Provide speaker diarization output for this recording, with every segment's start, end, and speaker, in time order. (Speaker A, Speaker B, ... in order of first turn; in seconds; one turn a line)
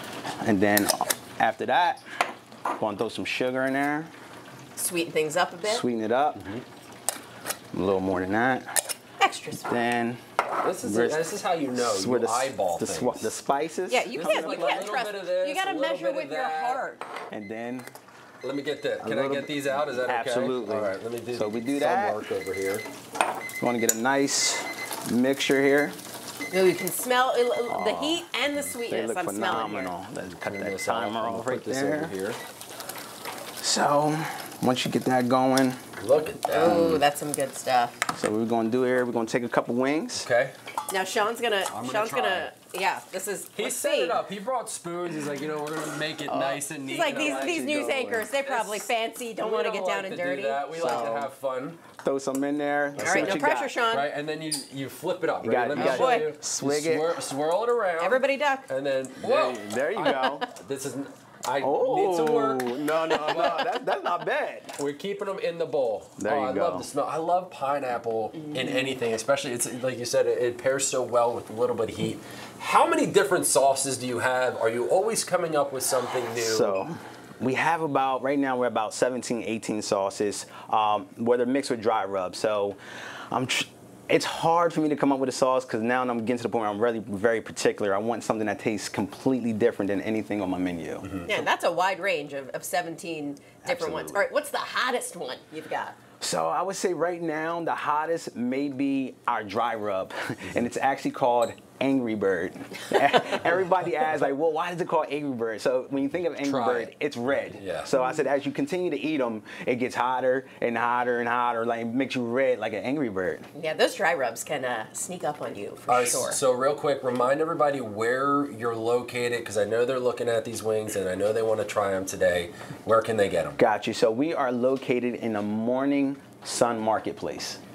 Speaker A: 0.4-2.0
Speaker A: 2.7-4.1
Speaker B: 4.8-5.8
Speaker A: 5.6-6.6
Speaker A: 7.7-8.7
Speaker B: 9.2-9.8
Speaker A: 9.7-10.2
Speaker C: 10.6-13.3
Speaker A: 10.8-14.9
Speaker B: 13.9-17.0
Speaker C: 14.2-16.8
Speaker A: 17.3-17.9
Speaker C: 18.4-22.9
Speaker A: 19.0-22.2
Speaker A: 23.6-26.0
Speaker B: 26.5-29.9
Speaker A: 27.7-28.3
Speaker A: 28.9-32.1
Speaker C: 30.4-32.4
Speaker A: 33.6-35.8
Speaker C: 36.0-36.8
Speaker B: 36.5-38.0
Speaker A: 36.6-37.0
Speaker A: 38.1-40.3
Speaker C: 40.2-40.5
Speaker B: 40.9-44.2
Speaker C: 41.7-42.5
Speaker C: 43.5-47.7
Speaker A: 46.3-48.3
Speaker B: 46.8-51.1
Speaker C: 48.4-48.9
Speaker C: 49.4-51.8
Speaker A: 50.8-51.3
Speaker A: 52.0-53.8
Speaker C: 53.0-63.7
Speaker B: 53.0-54.1
Speaker A: 55.4-57.2
Speaker B: 55.8-56.3
Speaker B: 58.0-58.7
Speaker A: 59.2-60.5
Speaker A: 61.6-64.8
Speaker C: 64.8-76.8
Speaker A: 66.2-66.9
Speaker A: 76.3-82.8
Speaker A: 83.3-91.1
Speaker C: 91.0-91.3
Speaker B: 91.3-96.0
Speaker A: 93.6-94.3
Speaker A: 96.2-113.5
Speaker C: 106.4-107.9
Speaker B: 113.5-116.4
Speaker C: 115.9-123.6
Speaker A: 123.6-127.6